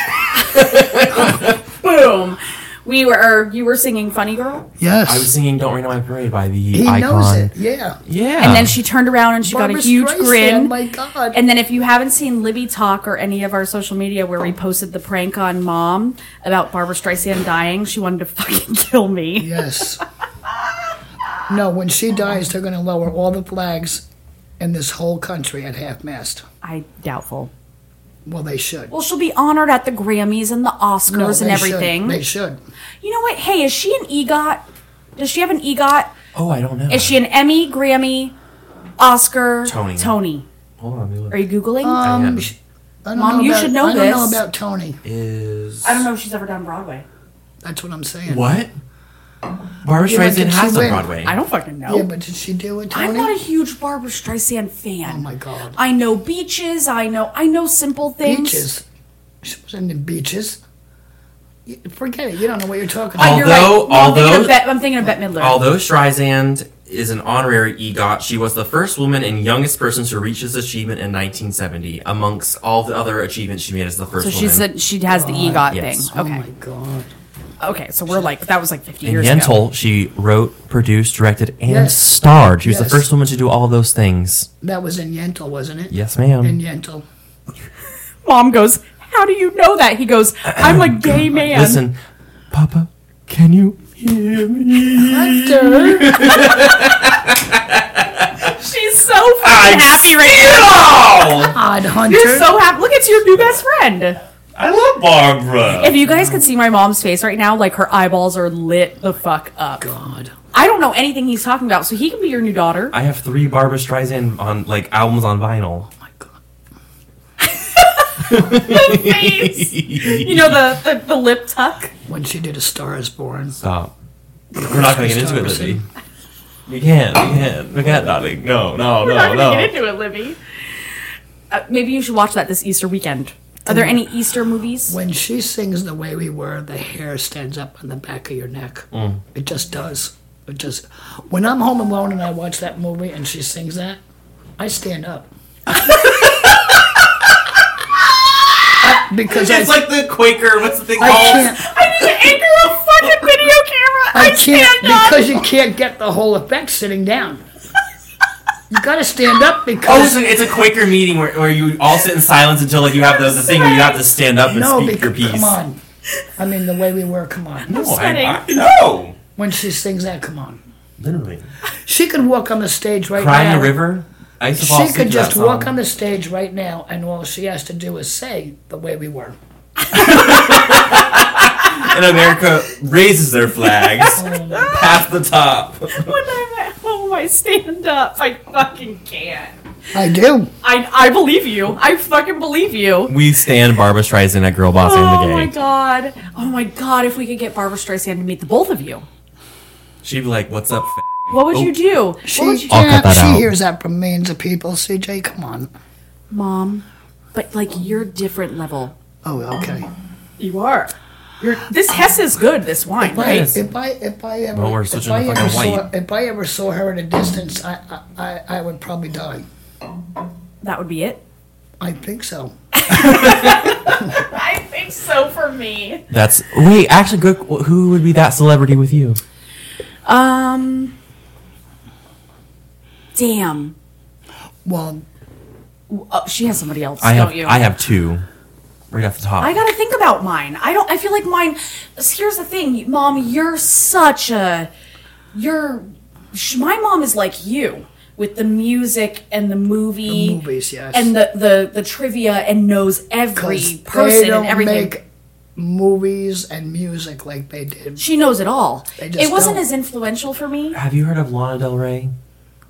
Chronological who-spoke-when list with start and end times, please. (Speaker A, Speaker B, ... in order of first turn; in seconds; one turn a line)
Speaker A: 0.3-4.7
Speaker B: 0.4-1.6
Speaker C: 4.8-5.3
Speaker B: 5.1-7.5
Speaker C: 6.7-8.0
Speaker B: 8.1-8.8
Speaker A: 8.4-10.7
Speaker C: 9.4-11.4
Speaker A: 11.3-19.8
Speaker C: 19.4-20.0
Speaker C: 21.5-24.1
Speaker C: 24.6-26.4
Speaker A: 26.6-27.5
Speaker C: 28.2-28.9
Speaker A: 28.9-32.2
Speaker C: 31.1-32.6
Speaker A: 33.0-34.6
Speaker A: 35.2-36.1
Speaker B: 36.3-37.1
Speaker A: 36.9-38.3
Speaker A: 39.0-40.5
Speaker B: 39.6-40.1
Speaker B: 40.8-41.4
Speaker A: 41.3-42.0
Speaker C: 41.8-45.0
Speaker B: 42.0-42.5
Speaker A: 43.1-44.4
Speaker B: 45.0-46.1
Speaker A: 45.8-47.0
Speaker C: 47.6-48.5
Speaker B: 48.3-48.7
Speaker B: 49.8-51.3
Speaker C: 50.0-51.1
Speaker A: 51.2-52.1
Speaker C: 51.9-53.3
Speaker A: 52.9-55.2
Speaker C: 55.0-55.8
Speaker A: 55.8-58.7
Speaker C: 58.2-58.8
Speaker C: 59.4-60.6
Speaker C: 61.6-63.6
Speaker A: 63.1-65.6
Speaker B: 63.2-64.6
Speaker B: 65.4-74.7
Speaker A: 74.2-76.4
Speaker C: 75.1-77.1
Speaker B: 75.7-76.1
Speaker A: 77.6-79.6
Speaker B: 79.0-84.5
Speaker C: 81.7-83.1
Speaker C: 84.6-87.0
Speaker B: 85.9-86.6
Speaker A: 88.2-91.8
Speaker B: 90.6-92.0
Speaker B: 92.5-98.5
Speaker C: 95.0-96.5
Speaker A: 98.4-100.8
Speaker B: 99.4-101.6
Speaker C: 101.5-102.5
Speaker A: 102.1-104.2
Speaker B: 104.5-106.0
Speaker A: 105.8-109.9
Speaker C: 105.9-106.5
Speaker C: 109.8-110.3
Speaker A: 110.5-112.9
Speaker B: 112.9-115.9
Speaker C: 116.0-116.4
Speaker A: 117.4-121.9
Speaker B: 118.2-120.6
Speaker C: 122.1-123.6
Speaker B: 123.6-123.9
Speaker B: 124.6-125.8
Speaker C: 124.6-125.8
Speaker B: 126.7-129.8
Speaker A: 129.0-130.4
Speaker A: 131.5-135.0
Speaker C: 133.7-134.0
Speaker C: 134.9-144.0
Speaker B: 138.9-139.2
Speaker C: 144.6-145.3
Speaker B: 146.1-146.8
Speaker C: 148.8-149.8
Speaker B: 149.3-151.6
Speaker C: 151.0-151.6
Speaker A: 151.6-155.4
Speaker C: 154.1-157.4
Speaker C: 158.7-160.2
Speaker B: 159.8-165.6
Speaker A: 163.2-164.0
Speaker C: 164.5-165.8
Speaker C: 166.4-167.7
Speaker B: 167.7-169.2
Speaker A: 167.7-168.4
Speaker C: 169.4-170.6
Speaker B: 171.0-171.5
Speaker C: 171.9-173.8
Speaker B: 173.2-175.8
Speaker C: 174.6-179.4
Speaker A: 179.9-181.0
Speaker B: 179.9-186.2
Speaker A: 181.6-182.0
Speaker A: 183.6-184.2
Speaker C: 184.1-184.8
Speaker A: 185.9-189.5
Speaker C: 189.9-190.5
Speaker A: 190.6-193.1
Speaker B: 193.1-195.5
Speaker A: 194.8-199.1
Speaker B: 200.0-201.7
Speaker A: 201.3-203.0
Speaker C: 202.2-205.7
Speaker B: 202.7-203.5
Speaker A: 206.3-208.9
Speaker C: 209.2-209.9
Speaker A: 210.4-213.5
Speaker C: 213.0-219.5
Speaker B: 213.1-213.6
Speaker B: 214.5-215.9
Speaker A: 220.6-221.2
Speaker C: 221.8-222.6
Speaker A: 222.8-226.0
Speaker B: 222.9-223.7
Speaker B: 226.1-229.2
Speaker A: 230.1-230.9
Speaker A: 233.1-233.8
Speaker C: 234.6-235.1
Speaker A: 235.9-237.6
Speaker B: 237.0-238.2
Speaker B: 238.9-239.6
Speaker A: 239.4-244.7
Speaker A: 245.3-250.4
Speaker C: 250.1-251.1
Speaker A: 250.9-254.9
Speaker C: 253.4-255.1
Speaker C: 255.6-258.0
Speaker A: 258.0-260.8
Speaker C: 259.0-259.7
Speaker B: 260.7-262.1